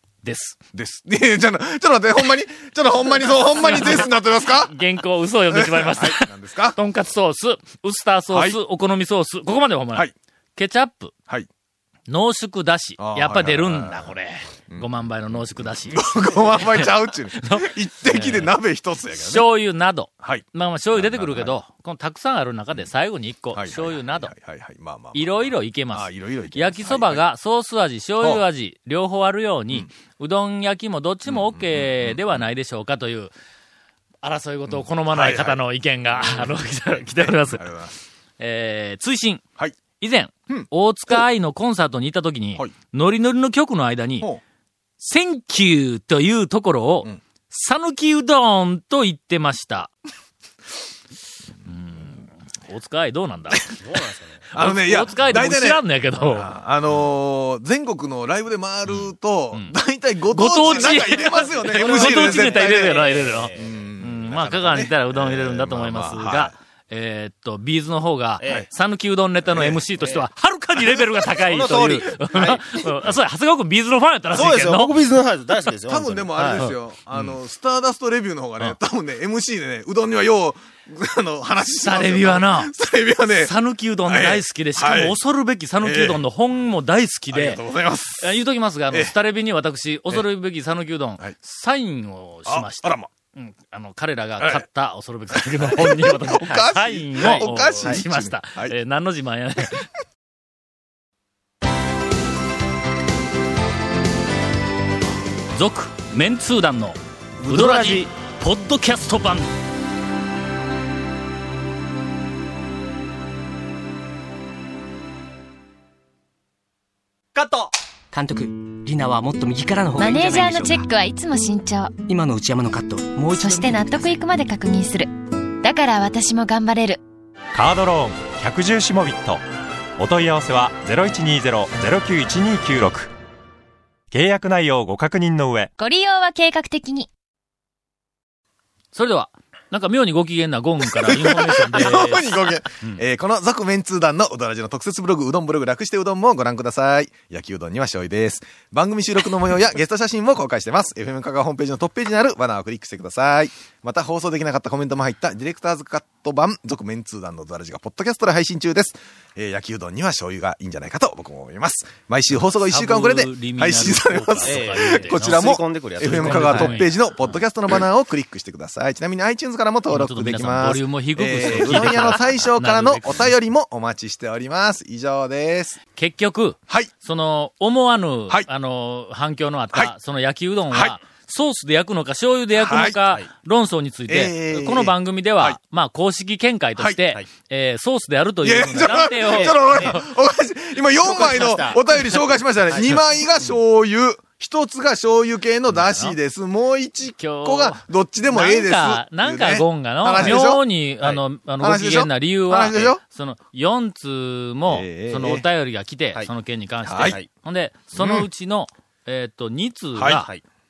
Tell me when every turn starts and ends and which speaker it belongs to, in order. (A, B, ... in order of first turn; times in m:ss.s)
0:00.2-0:00.6 A
0:00.7-0:04.7 B
0:03.4-0:11.1 A
0:05.5-0:06.8 B
0:08.3-0:08.6 B
0:12.1-0:18.5 A
0:13.0-0:14.1 B
0:15.6-0:19.5 B
0:19.1-0:24.3 A
0:20.2-0:21.5 B
0:23.5-0:27.2 B
0:25.1-0:33.3 A
0:31.2-0:32.4 B
0:34.2-0:37.7 A
0:34.7-0:35.6 B
0:36.1-0:38.0 B
0:38.4-0:39.4 A
0:40.0-0:44.3 A
0:40.5-0:41.2 B
0:45.0-0:49.9 A
0:51.6-0:53.8 A
0:53.8-0:54.4 C
0:54.5-1:06.5 B
0:54.5-0:57.0 A
0:58.8-0:59.7 A
1:00.3-1:15.0 A
1:00.6-1:03.8 C
1:08.4-1:08.7 C
1:09.4-1:09.8 B
1:10.0-1:10.3 C
1:11.3-1:12.8 C
1:14.3-1:16.6 C
1:15.9-1:23.5 B
1:16.5-1:17.4 A
1:21.8-1:22.7 A
1:23.3-1:39.9 A
1:24.0-1:25.2 B
1:25.8-1:26.2 B
1:27.3-1:28.4 B
1:28.9-1:29.2 B
1:32.4-1:33.1 B
1:34.4-1:34.6 B
1:35.3-1:38.7 B
1:45.5-1:49.5 A
1:47.5-1:48.0 C
1:58.1-2:00.8 D
2:00.0-2:02.0 E
2:02.1-2:03.6 D
2:03.3-2:07.0 E
2:07.5-2:09.4 F
2:10.0-2:13.1 F
2:14.1-2:15.7 F
2:15.8-2:17.1 E
2:18.9-2:23.0 A
2:20.9-2:55.8 B
2:42.6-2:47.4 A
2:44.4-2:46.8 C
2:49.9-2:53.3 A
2:56.0-3:10.0 A
3:00.7-3:01.0 B
3:02.6-3:03.0 B
3:04.1-3:05.6 B
3:08.4-3:23.0 B
3:08.8-3:10.0 C
3:11.0-3:12.2 C
3:15.7-3:16.2 A
3:17.2-3:30.3 A
3:24.7-3:25.4 B
3:26.8-3:27.2 B
3:27.0-3:27.3 C
3:27.9-3:28.3 B
3:29.9-3:30.2 B
3:30.1-3:30.4 C